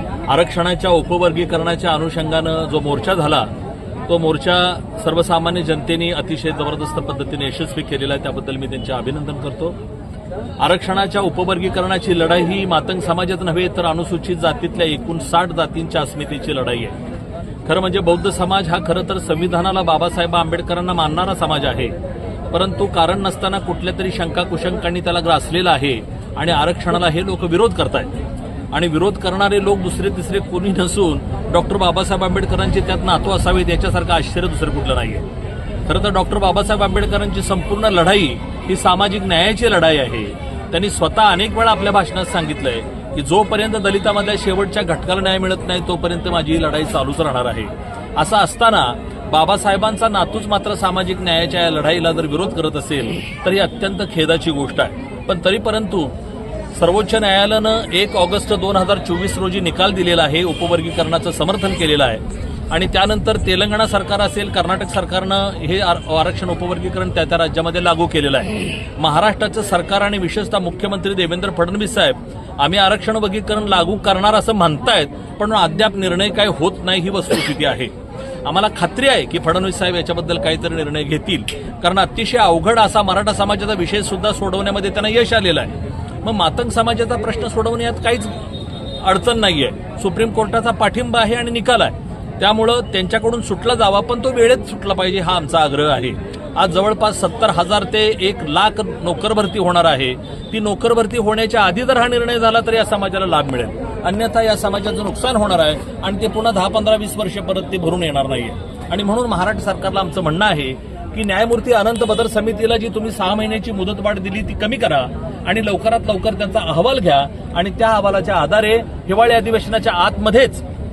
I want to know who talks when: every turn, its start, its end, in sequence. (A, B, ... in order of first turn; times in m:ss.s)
0:00.3-0:03.5 A
0:04.1-0:09.8 A
0:10.6-0:17.0 A
0:17.7-0:22.0 A
0:22.5-0:28.2 A
0:28.7-0:35.2 A
0:35.9-0:56.1 A
0:56.7-1:17.9 A
1:18.4-1:28.4 A
1:29.0-2:00.6 A